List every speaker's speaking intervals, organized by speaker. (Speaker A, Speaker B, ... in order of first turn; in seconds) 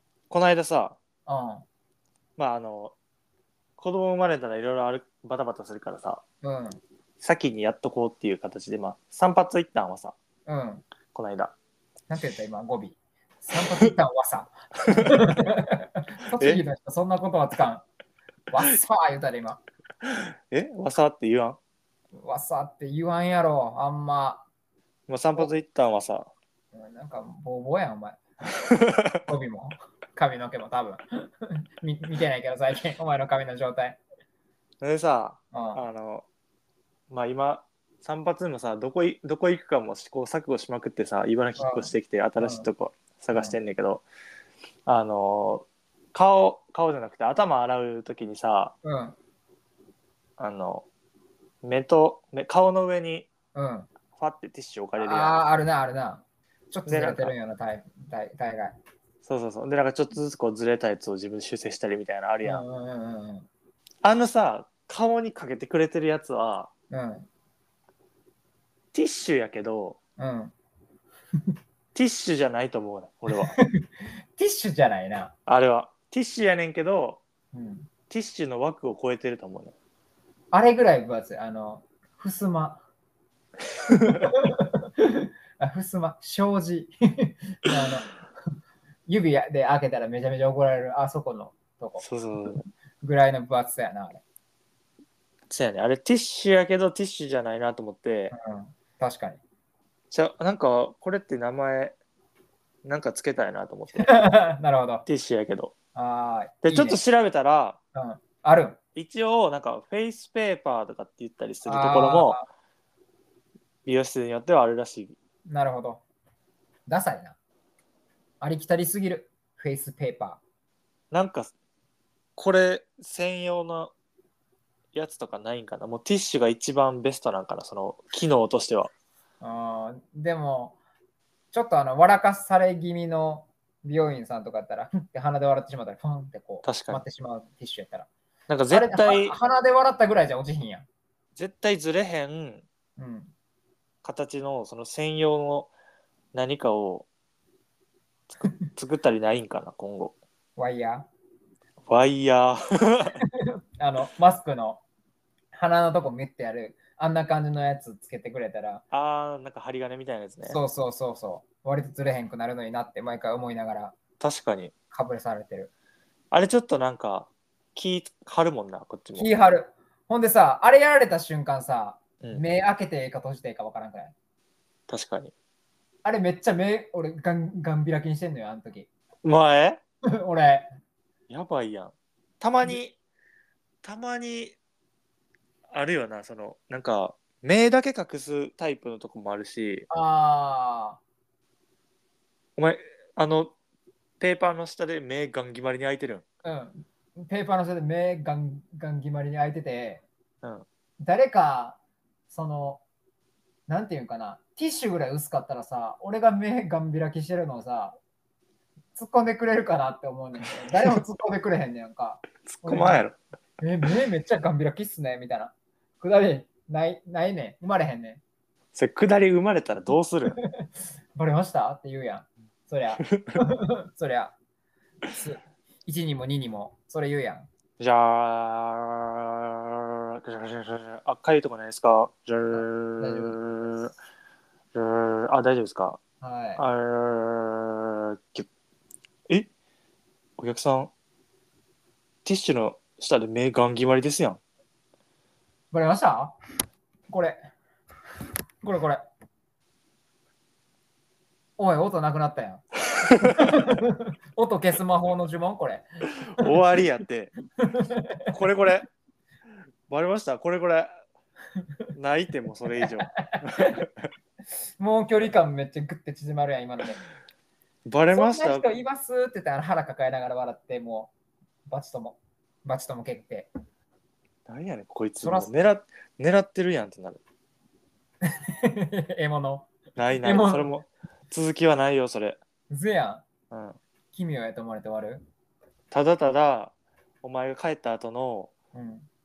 Speaker A: 0.3-1.0, 2.4-3.0, 3.8-6.2, 7.2-10.2, 11.1-11.6, 16.4-16.6, 20.0-21.6, 25.1-26.3, 28.7-29.1, 34.8-36.3, 37.1-44.0, 44.9-48.8, 50.4-50.9, 51.6-53.3, 54.2-55.4, 56.9-57.3, 59.2-62.6, 64.0-66.7, 68.9-70.0, 72.0-73.5, 75.5-77.2, 78.1-79.7, 92.0-92.6, 95.5-98.3, 100.1-102.0, 102.8-104.3, 105.1-105.7, 106.6-107.8, 109.0-112.4, 113.9-115.2, 121.1-121.5, 122.4-123.9, 124.9-128.9, 136.6-137.0, 138.5-139.4, 141.4-142.7, 144.0-145.7, 146.3-147.1, 148.6-150.2, 151.9-153.2, 158.9-160.6, 164.2-164.7, 166.3-169.4, 174.9-175.3, 179.2-179.8, 181.3-183.0, 183.8-184.6, 185.7-189.9, 192.6-193.6, 194.2-196.2, 212.5-213.2, 218.7-220.4, 223.0-223.4, 227.8-233.9, 234.7-236.0, 236.6-238.5, 240.4-240.9, 242.2-244.4, 256.4-257.4, 258.3-258.9, 259.9-261.0, 261.9-264.1, 267.9-268.7, 274.5-277.2, 280.0-282.4, 283.5-283.8, 285.9-288.5
Speaker B: 1.3-1.6, 6.4-6.8, 10.5-10.8, 12.1-17.9, 18.5-19.6, 22.2-24.5, 26.7-28.2, 29.2-34.0, 35.5-35.9, 41.6-42.7, 48.8-49.2, 53.5-53.9, 55.0-58.8, 62.4-63.5, 66.9-67.3, 70.2-70.5, 73.3-75.3, 77.5-77.9, 80.5-82.8, 84.1-88.1, 89.1-92.0, 93.0-94.2, 98.3-99.4, 104.0-105.0, 106.0-107.0, 108.0-108.8, 111.7-112.5, 115.5-116.0, 116.9-117.4, 118.4-120.4, 129.4-130.8, 131.5-138.1, 138.7-140.9, 143.0-143.3, 150.6-151.1, 153.8-154.8, 155.5-158.8, 160.4-164.0, 164.9-165.7, 169.2-174.1, 176.0-178.9, 180.2-180.7, 189.9-191.0, 196.4-200.0, 201.0-201.8, 202.3-202.8, 203.7-208.0, 208.9-213.0, 213.6-218.2, 220.3-224.3, 225.1-227.5, 232.5-233.4, 236.2-236.6, 245.7-246.4, 247.1-247.4, 248.6-249.1, 251.6-255.9, 257.6-258.3, 262.9-263.9, 264.8-267.0, 268.1-271.1, 271.7-273.5, 275.2-275.5, 278.3-280.8, 282.7-283.2, 284.1-285.3, 288.7-289.1